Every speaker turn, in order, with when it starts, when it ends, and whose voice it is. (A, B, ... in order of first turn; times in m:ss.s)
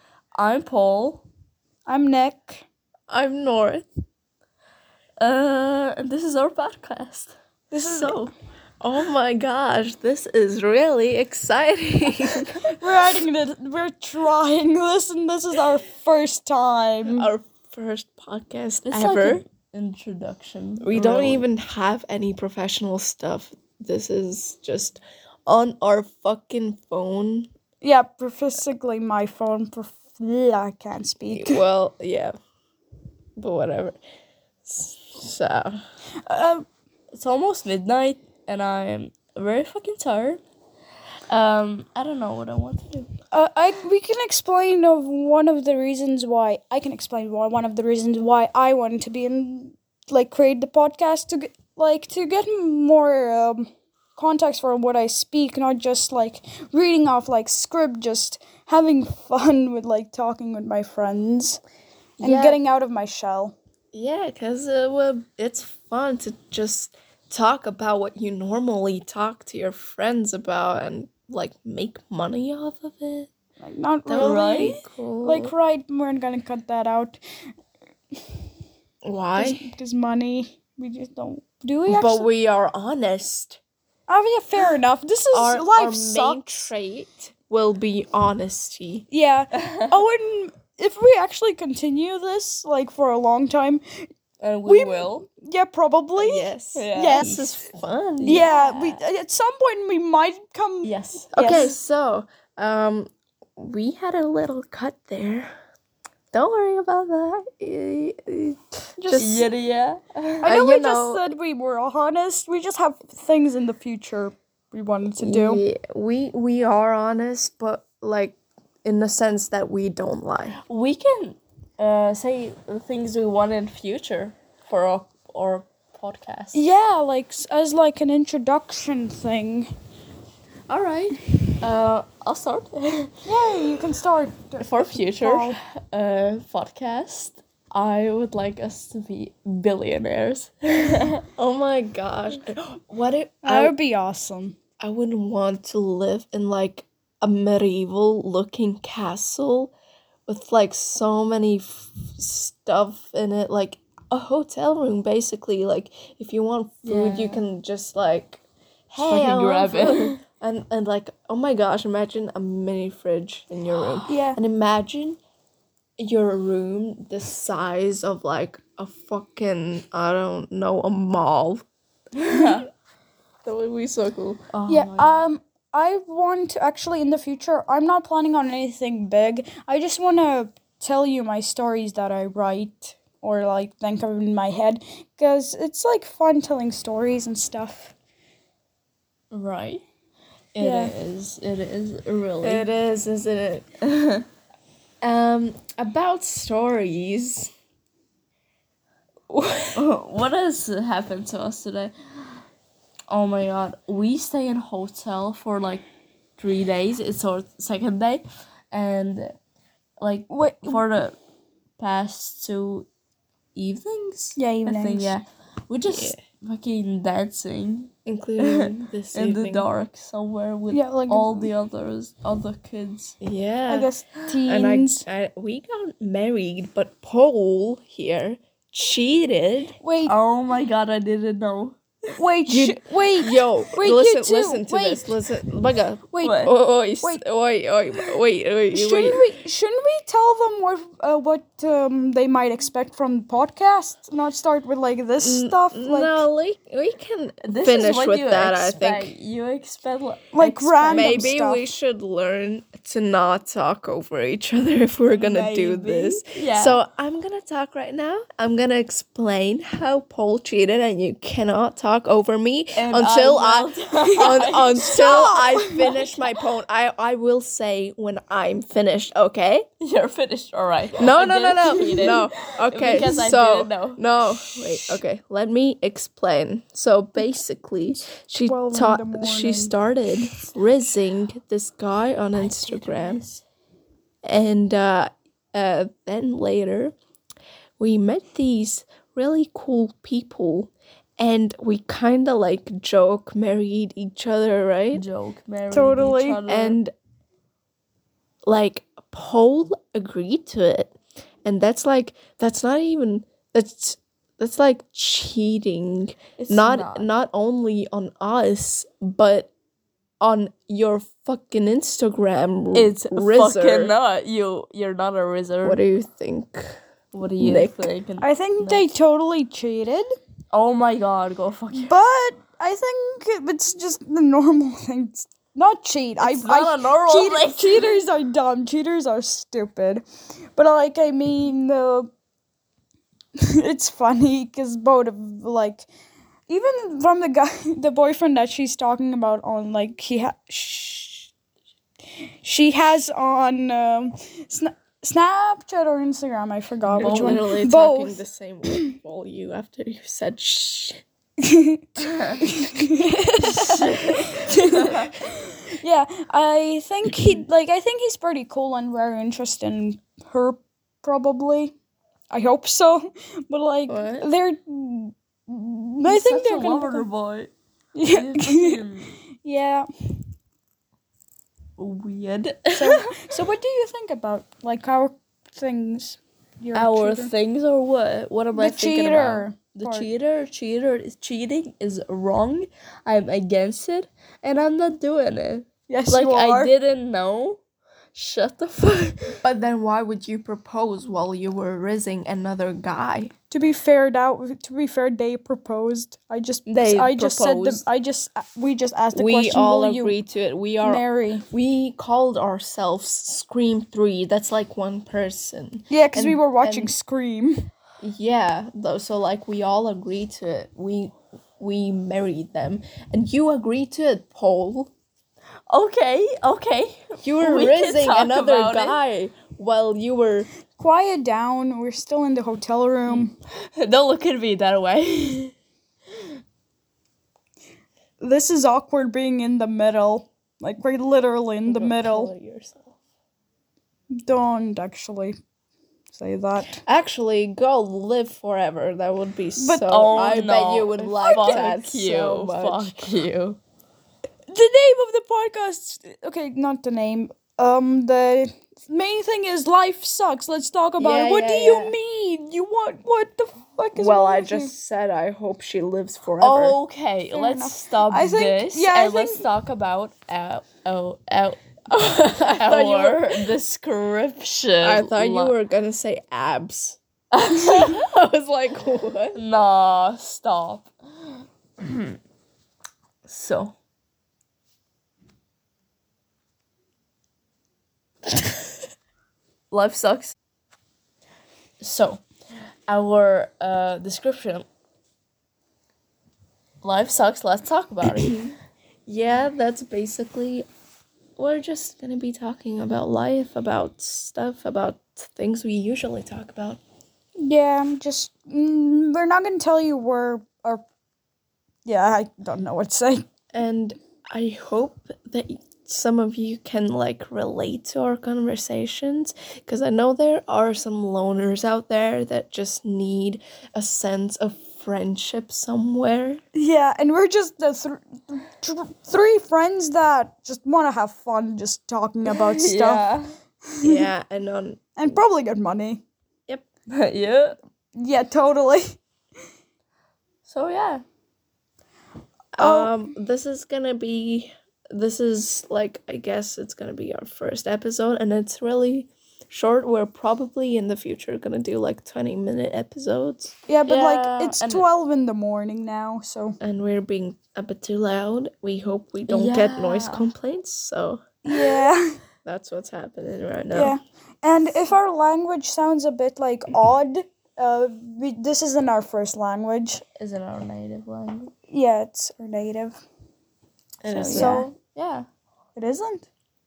0:00.3-0:01.2 A
0:01.8-0:02.6 B
0:03.1-0:03.8 C
0:05.2-0:07.3 A
0:07.7-0:08.3 B
0:07.9-0:12.6 C
0:12.7-0:17.3 B
0:17.0-0:19.4 C
0:18.8-0:21.4 A
0:20.8-0:27.5 C
0:27.8-0:31.6 B
0:31.3-0:32.3 C
0:33.4-0:34.0 C
0:34.6-0:35.8 C
0:36.2-0:36.6 B
0:37.1-0:40.4 A
0:41.3-0:43.1 A
0:43.3-1:01.6 B
1:02.2-1:02.6 C
1:02.2-1:03.5 B
1:03.9-1:13.3 C
1:13.6-1:17.2 B
1:14.0-1:15.5 C
1:14.2-1:14.8 A
1:19.0-1:19.6 C
1:19.3-1:22.2 B
1:21.9-1:23.6 C
1:24.1-1:26.7 B
1:25.3-1:29.0 C
1:29.1-1:33.8 B
1:34.4-1:35.2 A
1:34.6-1:37.7 B
1:36.2-1:38.5 C
1:36.7-1:37.4 A
1:38.2-1:39.0 A
1:38.2-1:41.8 B
1:40.8-1:41.7 A
1:41.3-1:45.5 C
1:46.3-1:49.5 C
1:49.0-1:49.3 B
1:49.2-1:50.5 A
1:50.4-1:55.6 B
1:50.4-1:51.2 C
1:55.2-2:00.6 C
2:00.6-2:06.6 A
2:06.5-2:09.7 B
2:10.7-2:13.1 A
2:13.2-2:15.6 B
2:14.6-2:21.2 A
2:21.4-2:23.7 C
2:23.4-2:24.6 B
2:24.8-2:29.7 C
2:30.3-2:45.2 C
2:36.8-2:37.4 A
2:39.0-2:40.2 A
2:44.1-2:44.4 B
2:46.0-2:51.6 C
2:52.1-2:52.7 A
2:53.4-2:54.6 C
2:54.6-2:55.2 A
2:54.7-3:07.9 B
3:09.3-3:09.8 A
3:10.6-3:10.9 B
3:10.6-3:12.6 A
3:12.4-3:13.6 C
3:13.8-3:14.2 A
3:15.0-3:17.5 C
3:19.3-3:19.8 C
3:19.7-3:21.9 A
3:23.1-3:25.8 A
3:26.4-3:29.3 A
3:30.0-3:31.2 A
3:30.3-3:30.8 B
3:31.8-3:32.9 A
3:33.5-3:43.1 A
3:34.4-3:35.2 B
3:35.8-3:36.2 C
3:38.0-3:39.7 C
3:40.7-3:41.5 B
3:43.2-3:43.9 C
3:43.7-3:45.0 B
3:44.4-3:49.7 C
3:49.8-3:50.1 B
3:50.0-3:51.8 A
3:52.2-3:55.2 B
3:52.5-3:59.2 C
3:56.2-3:56.5 A
3:57.9-3:58.2 B
3:58.7-4:06.2 B
4:05.2-4:09.1 C
4:07.4-4:11.3 A
4:10.3-4:11.6 B
4:10.9-4:29.6 C
4:15.1-4:16.8 A
4:22.8-4:25.3 A
4:24.2-4:26.2 B
4:29.8-4:34.0 A
4:31.0-4:43.2 C
4:32.9-4:33.2 B
4:38.4-4:39.7 B
4:42.3-4:43.4 A
4:44.2-4:46.9 C
4:47.8-4:55.0 C
4:54.9-4:56.8 A
4:55.7-4:56.4 B
4:56.5-4:56.9 C
4:58.4-5:00.9 C
5:01.4-5:09.5 C
5:06.4-5:07.1 A
5:10.2-5:13.9 C
5:12.7-5:15.8 A
5:15.6-5:16.8 C
5:17.1-5:18.9 A
5:17.4-5:17.9 C
5:18.2-5:20.0 B
5:20.5-5:21.9 A
5:21.7-5:30.0 B
5:26.2-5:28.0 A
5:30.5-5:32.1 B
5:33.6-5:35.9 B
5:36.5-5:41.3 B
5:42.4-5:48.9 B
5:46.9-5:47.5 A
5:47.0-5:51.0 C
5:51.4-6:01.7 B
5:52.0-5:52.4 A
6:02.3-6:07.1 B
6:03.9-6:04.2 C
6:06.0-6:07.5 A
6:07.9-6:08.8 B
6:08.1-6:09.1 A
6:09.4-6:09.8 B
6:11.8-6:13.2 A
6:12.7-6:17.3 B
6:16.7-6:27.6 A
6:18.5-6:20.1 B
6:25.9-6:26.7 B
6:28.1-6:29.4 A
6:29.4-6:33.3 C
6:33.5-6:40.2 B
6:36.7-6:37.8 A
6:39.1-6:46.9 C
6:40.8-6:41.4 B
6:45.9-6:47.7 B
6:48.0-6:54.9 C
6:55.7-6:59.0 A
6:57.2-7:00.5 C
7:00.8-7:03.3 B
7:03.1-7:05.5 A
7:08.2-7:12.3 B
7:11.7-7:12.8 C
7:14.2-7:15.3 B
7:16.1-7:16.8 B
7:16.6-7:23.1 C
7:19.6-7:21.8 B
7:19.9-7:23.6 A
7:24.5-7:34.7 B
7:31.0-7:31.9 C
7:33.9-7:36.8 C
7:36.4-7:45.5 A
7:37.3-7:39.4 B
7:41.9-7:43.5 C
7:44.8-7:49.4 C
7:47.5-7:47.9 A
7:49.3-7:50.9 A
7:51.8-7:52.2 A
7:53.2-7:53.7 A
7:59.7-8:00.3 A
8:01.8-8:02.2 A
8:02.9-8:04.6 A
8:06.8-8:08.4 A
8:08.0-8:08.6 C
8:09.1-8:10.6 C
8:11.4-8:16.8 C
8:17.4-8:20.8 B
8:21.8-8:23.2 B
8:23.5-8:36.4 C
8:36.5-8:43.2 B
8:42.3-8:43.3 A
8:43.7-8:44.1 B
8:43.8-8:45.2 C
8:45.0-8:46.0 B
8:46.9-8:47.6 A
8:48.0-8:49.0 B
8:50.4-8:51.0 A
8:52.6-9:04.8 C
8:52.6-8:52.9 B
9:03.7-9:06.6 B
9:06.6-9:11.2 C
9:09.3-9:10.2 A
9:11.4-9:12.2 B
9:12.4-9:13.9 C
9:13.7-9:20.0 B
9:20.2-9:21.5 A
9:21.7-9:23.0 B
9:24.0-9:24.7 C
9:24.1-9:25.3 A
9:24.2-9:24.7 B
9:25.8-9:26.3 B